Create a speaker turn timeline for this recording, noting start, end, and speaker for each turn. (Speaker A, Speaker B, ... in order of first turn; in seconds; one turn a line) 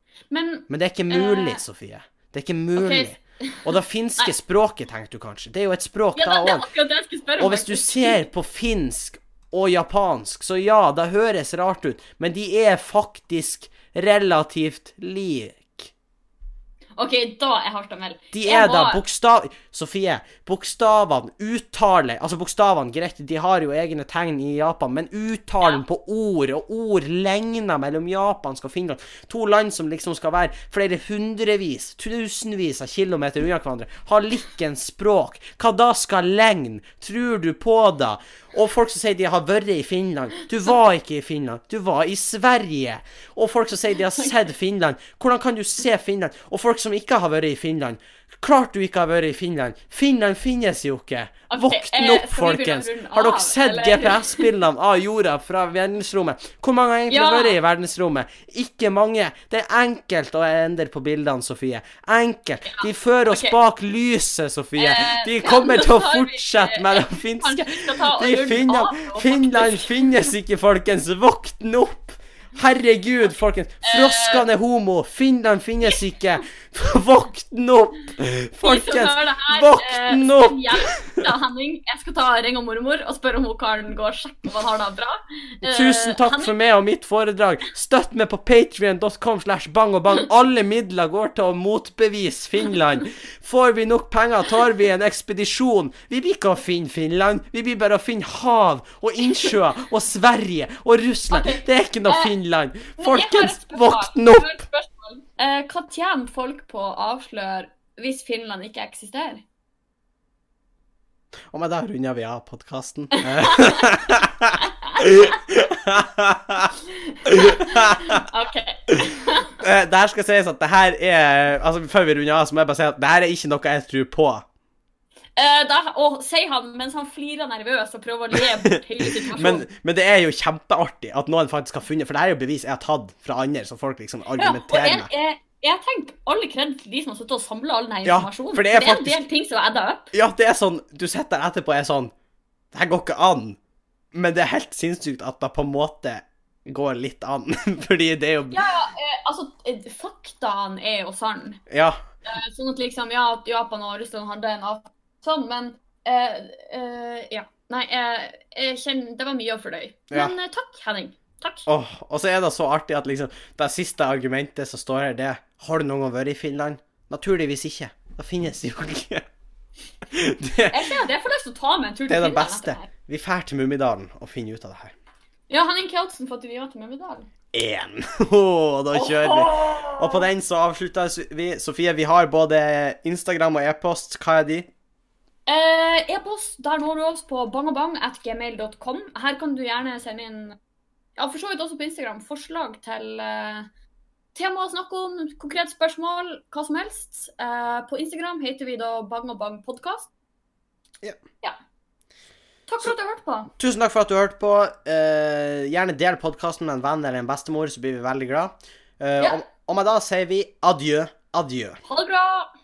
Speaker A: 0.3-1.6
Speaker B: 0.7-6.7
Speaker A: 2.8-4.3
Speaker A: 6.2-8.2
Speaker B: 7.4-15.9
Speaker A: 16.9-19.0
Speaker B: 18.3-81.3
Speaker A: 51.5-54.5
Speaker A: 57.1-57.5
Speaker A: 62.6-63.5
Speaker A: 64.8-69.9
Speaker A: 73.8-74.4
Speaker A: 78.6-86.5
Speaker B: 85.6-104.6
Speaker A: 101.3-102.3
Speaker A: 103.0-109.4
Speaker B: 111.5-118.2
Speaker A: 113.2-114.0
Speaker A: 114.6-115.3
Speaker A: 117.0-119.5
Speaker B: 119.6-124.4
Speaker A: 125.3-129.7
Speaker B: 128.4-135.1
Speaker A: 134.4-140.1
Speaker B: 138.0-139.2
Speaker B: 140.1-142.1
Speaker B: 142.7-143.6
Speaker B: 144.1-148.6
Speaker A: 148.5-151.6
Speaker B: 151.7-152.0
Speaker A: 152.2-161.7
Speaker B: 161.7-169.2
Speaker B: 170.1-171.0
Speaker A: 170.7-172.9
Speaker B: 172.1-174.9
Speaker A: 175.5-177.3
Speaker B: 177.5-184.7
Speaker A: 178.9-180.3
Speaker A: 185.4-190.6
Speaker A: 191.2-193.7
Speaker A: 194.3-200.1
Speaker A: 202.7-203.5
Speaker B: 203.6-211.8
Speaker A: 211.8-212.5